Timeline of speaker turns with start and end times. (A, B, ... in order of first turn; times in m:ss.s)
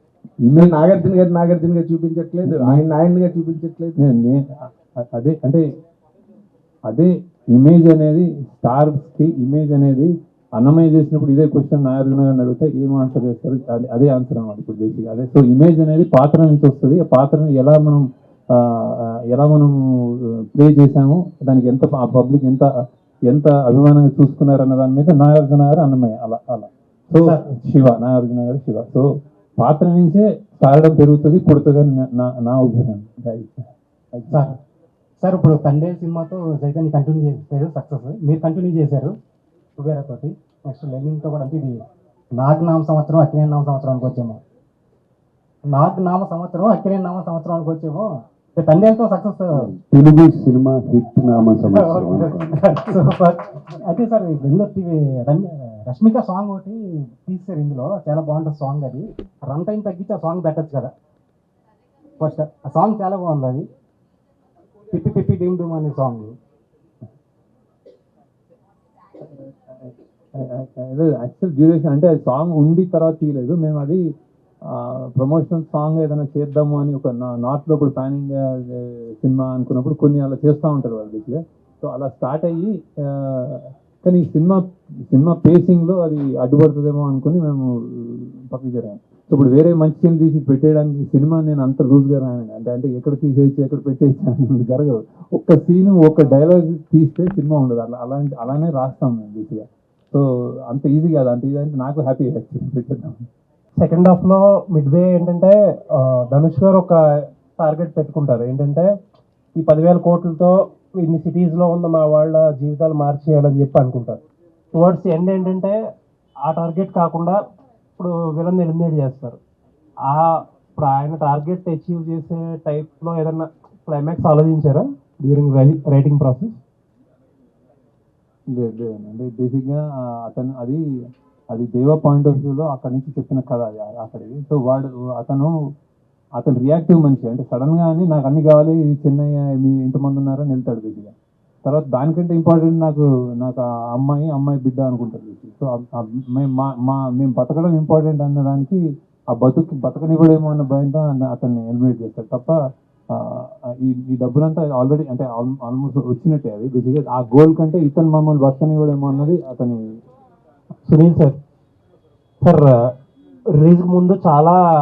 0:00.4-0:00.8 A
0:00.6-0:04.0 B
0:02.4-0:02.8 A
0:04.0-0:04.4 A
0:05.1-0:05.6 A
0:06.9-0:18.0 A
0:18.6-0:19.7 A
0:20.5-0:22.7 A
0:23.3-0:29.1 A
0:29.6-0:34.4 A
0:35.2-0:39.1 C
0:39.8-0:41.8 C
0:42.4-0:44.4 C
0:45.7-0:49.6 C
0:49.5-0:52.7 D
0:51.7-1:00.9 C
1:02.2-1:03.6 C
1:04.9-1:06.3 C
1:09.2-1:14.0 A
1:14.7-1:43.2 A
1:43.8-1:46.9 E
1:47.6-1:48.8 E
1:49.6-1:54.2 E
1:54.7-1:55.7 E
1:56.4-1:57.4 E
1:58.0-1:59.4 E
2:00.1-2:06.6 E
2:08.5-2:10.8 A
2:11.5-2:15.5 A
2:16.4-2:21.1 A
2:21.6-2:28.8 A
2:29.3-2:32.6 A
2:33.1-2:39.9 A
2:40.8-2:41.4 E
2:42.4-2:42.7 E
2:43.5-2:44.6 E